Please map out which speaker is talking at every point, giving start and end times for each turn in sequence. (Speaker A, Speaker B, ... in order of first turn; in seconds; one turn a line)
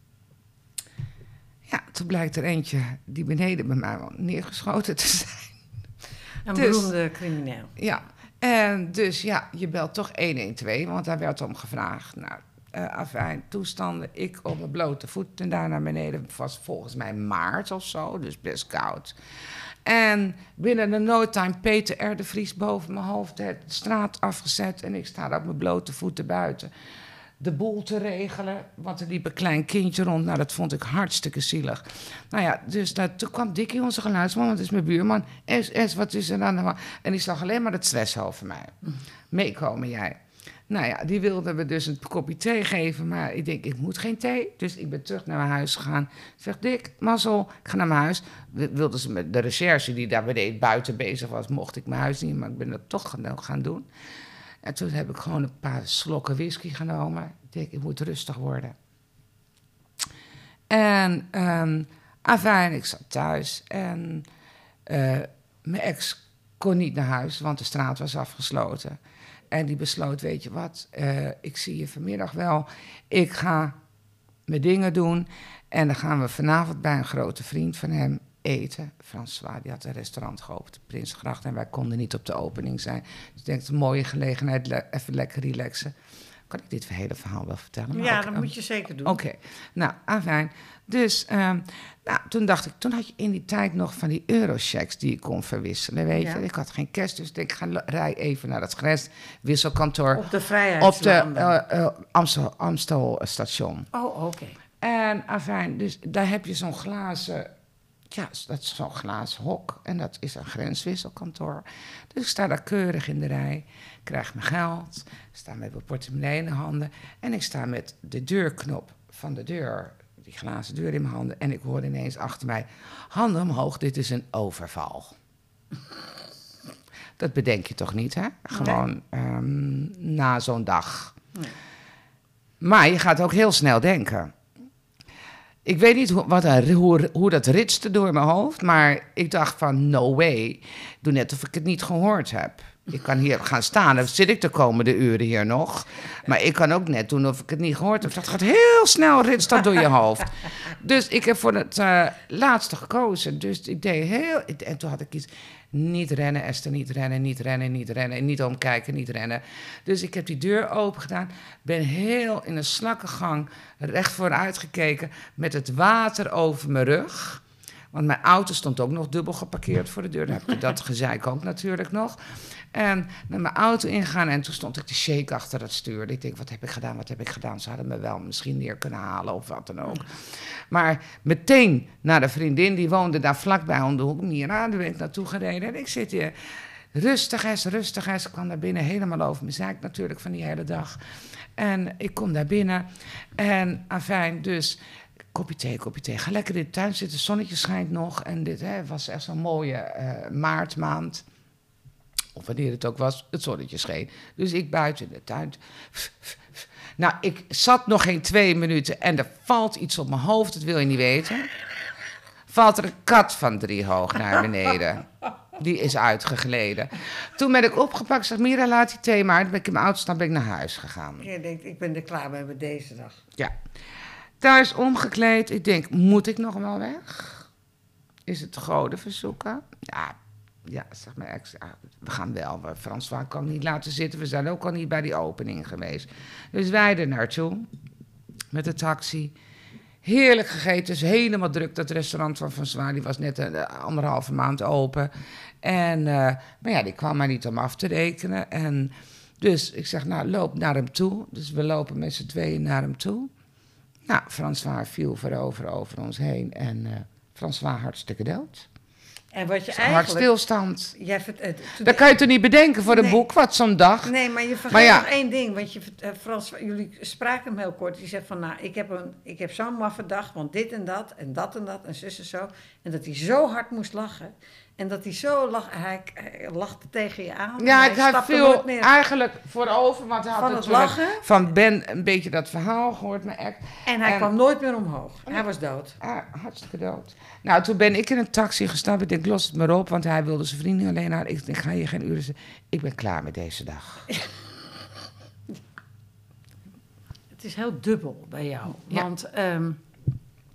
Speaker A: 1.7-5.6
Speaker B: 6.5-7.7
Speaker A: 6.5-6.9
Speaker A: 7.8-19.1
Speaker A: 19.9-26.7
Speaker A: 27.4-38.8
Speaker A: 39.3-53.9
Speaker A: 54.6-58.8
Speaker A: 60.7-64.3
Speaker A: 64.9-69.0
Speaker A: 69.5-73.8
Speaker A: 74.5-85.9
Speaker A: 86.5-88.5
Speaker B: 87.9-89.2
Speaker A: 89.0-103.9
Speaker B: 96.1-96.4
Speaker B: 100.2-101.6
Speaker B: 103.9-104.6
Speaker A: 104.8-107.5
Speaker A: 108.1-125.2
Speaker A: 127.2-131.2
Speaker B: 128.5-128.8
Speaker A: 132.6-134.3
Speaker A: 135.7-186.3
Speaker A: 186.9-191.0
Speaker A: 191.6-194.8
Speaker A: 195.3-201.2
Speaker A: 202.3-211.5
Speaker A: 212.5-221.3
Speaker B: 221.2-223.2
Speaker A: 224.4-227.5
Speaker A: 228.3-237.7
Speaker A: 238.5-239.3
Speaker A: 240.0-245.1
Speaker A: 245.6-253.3
Speaker A: 254.1-258.7
Speaker B: 259.3-260.3
Speaker A: 259.7-260.9
Speaker B: 260.9-262.1
Speaker A: 261.8-264.1
Speaker B: 262.9-263.2
Speaker B: 264.0-278.9
Speaker A: 264.7-265.1
Speaker A: 277.6-284.3
Speaker B: 280.4-281.2
Speaker B: 283.9-286.0
Speaker A: 286.0-294.1
Speaker B: 297.4-299.8